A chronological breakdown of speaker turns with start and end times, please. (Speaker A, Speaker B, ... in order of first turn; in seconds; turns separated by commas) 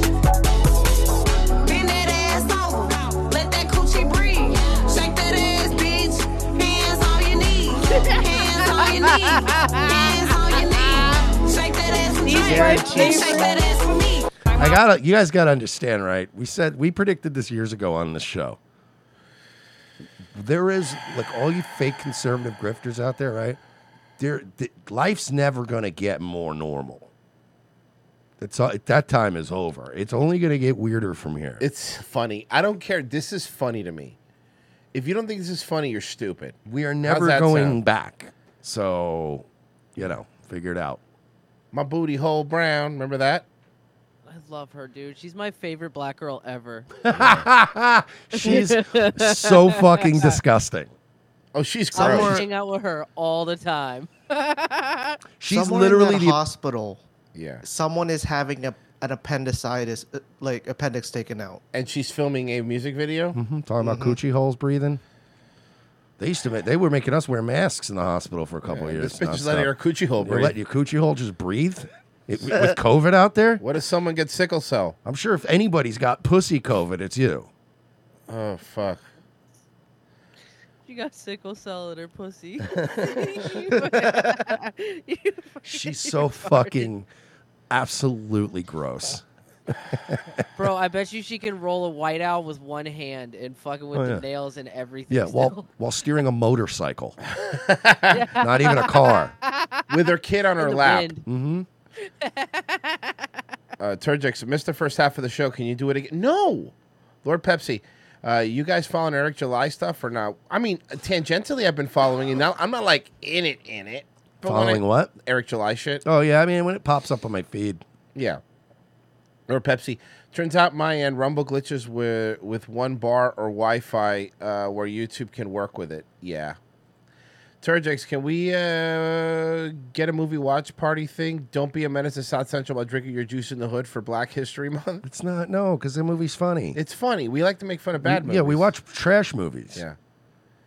Speaker A: 1.6-14.8, Speaker B: 8.8-11.1, Speaker B: 12.2-13.5, Speaker C: 12.4-13.5, Speaker D: 14.6-18.6, Speaker D: 20.3-23.6, Speaker D: 24.2-27.1, Speaker D: 28.4-31.6, Speaker E: 31.6-34.2, Speaker E: 34.9-37.8, Speaker D: 36.6-41.0, Speaker E: 41.7-43.4, Speaker B: 44.2-46.9, Speaker D: 47.0-50.9, Speaker E: 47.1-47.5, Speaker B: 48.3-50.4, Speaker E: 51.5-52.4, Speaker B: 51.9-55.2, Speaker C: 52.0-52.3, Speaker D: 52.0-52.3, Speaker D: 55.4-56.4, Speaker C: 55.5-57.0, Speaker E: 57.3-57.6, Speaker C: 57.6-61.6, Speaker E: 61.7-63.4, Speaker D: 63.3-65.0, Speaker C: 63.8-64.2, Speaker D: 66.2-73.6, Speaker E: 68.7-70.5, Speaker E: 73.6-75.0, Speaker D: 75.0-77.5, Speaker E: 78.3-79.0, Speaker B: 80.8-86.9, Speaker D: 85.7-87.1, Speaker D: 87.7-89.2, Speaker D: 89.9-90.2, Speaker B: 90.5-95.7, Speaker D: 93.9-94.2, Speaker D: 95.1-97.2, Speaker E: 97.4-98.2, Speaker B: 98.1-99.8, Speaker D: 98.3-99.3, Speaker E: 99.9-101.1, Speaker B: 100.6-101.2, Speaker D: 101.2-101.7, Speaker B: 102.2-103.1, Speaker E: 103.8-106.7, Speaker E: 107.2-116.0, Speaker D: 114.4-115.1, Speaker D: 116.0-117.8, Speaker E: 118.1-118.4, Speaker E: 119.5-126.6, Speaker E: 127.6-135.0, Speaker D: 135.0-136.8, Speaker E: 136.7-138.7, Speaker D: 138.0-139.8